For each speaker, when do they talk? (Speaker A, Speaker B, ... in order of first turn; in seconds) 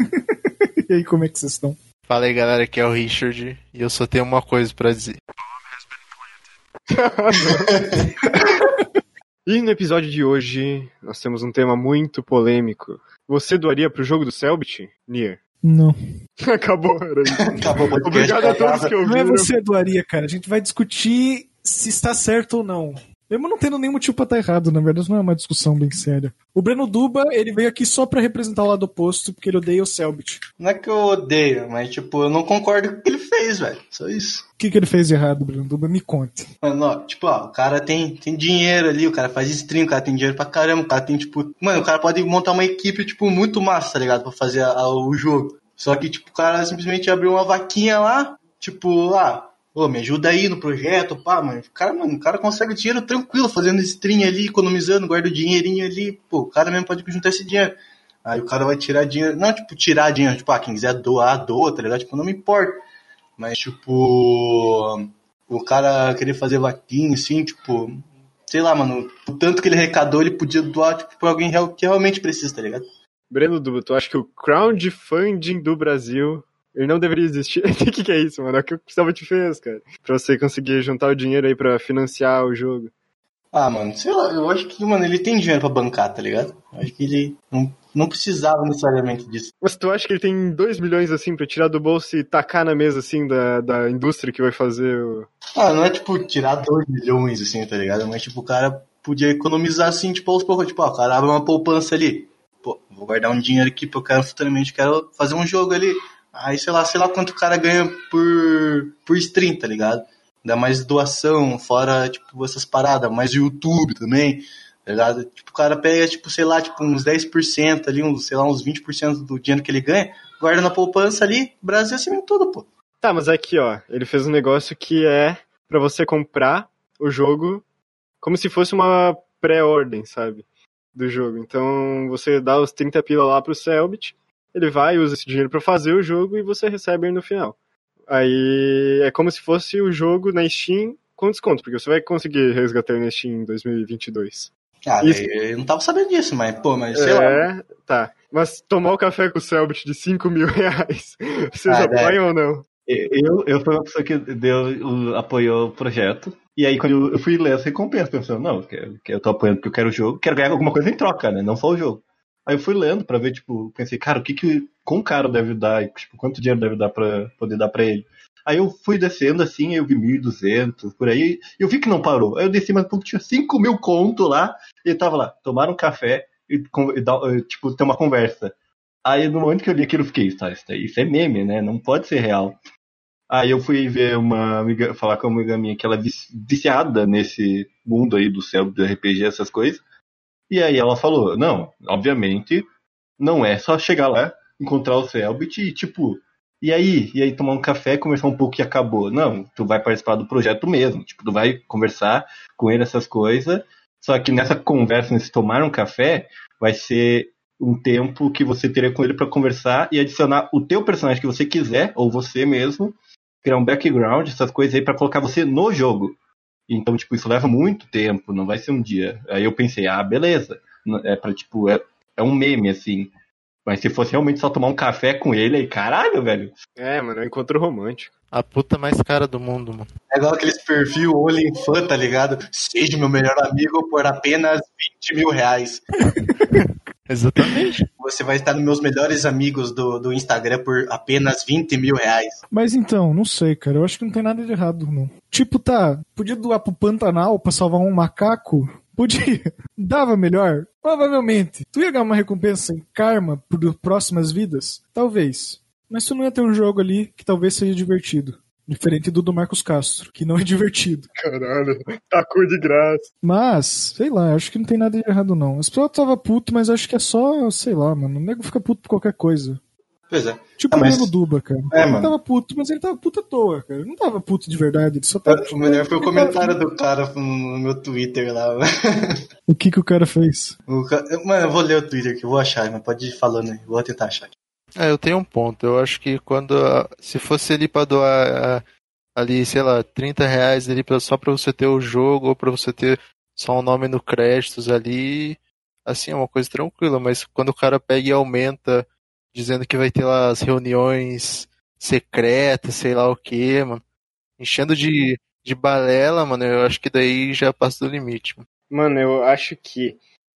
Speaker A: 0.9-1.8, 15.6-15.9, 18.4-30.4, 34.6-36.4, 236.1-236.6, 242.5-261.1, 263.2-269.6, 270.6-276.6, 279.5-280.6
Speaker B: 2.1-5.2, 228.3-229.9, 237.1-237.8, 284.8-288.6, 289.2-303.8, 304.4-308.4
Speaker C: 7.0-7.7, 9.4-15.4, 16.4-19.5, 73.3-82.9, 89.6-95.3, 123.0-127.6, 128.2-137.6, 138.1-144.5, 146.9-152.6, 226.8-228.1, 261.2-263.1, 308.7-310.0
Speaker D: 7.7-8.1, 17.4-18.9, 30.6-34.4, 36.6-62.8, 63.4-72.8, 83.5-89.5, 95.6-122.6, 144.8-147.4, 151.7-152.2, 230.1-235.8, 238.0-242.4, 270.1-271.1, 271.7-272.1, 275.3-279.2, 280.7-284.3
Speaker E: 152.9-178.5, 179.0-182.6, 183.3-189.8, 190.5-192.7, 193.2-216.1, 216.7-223.1, 223.7-226.6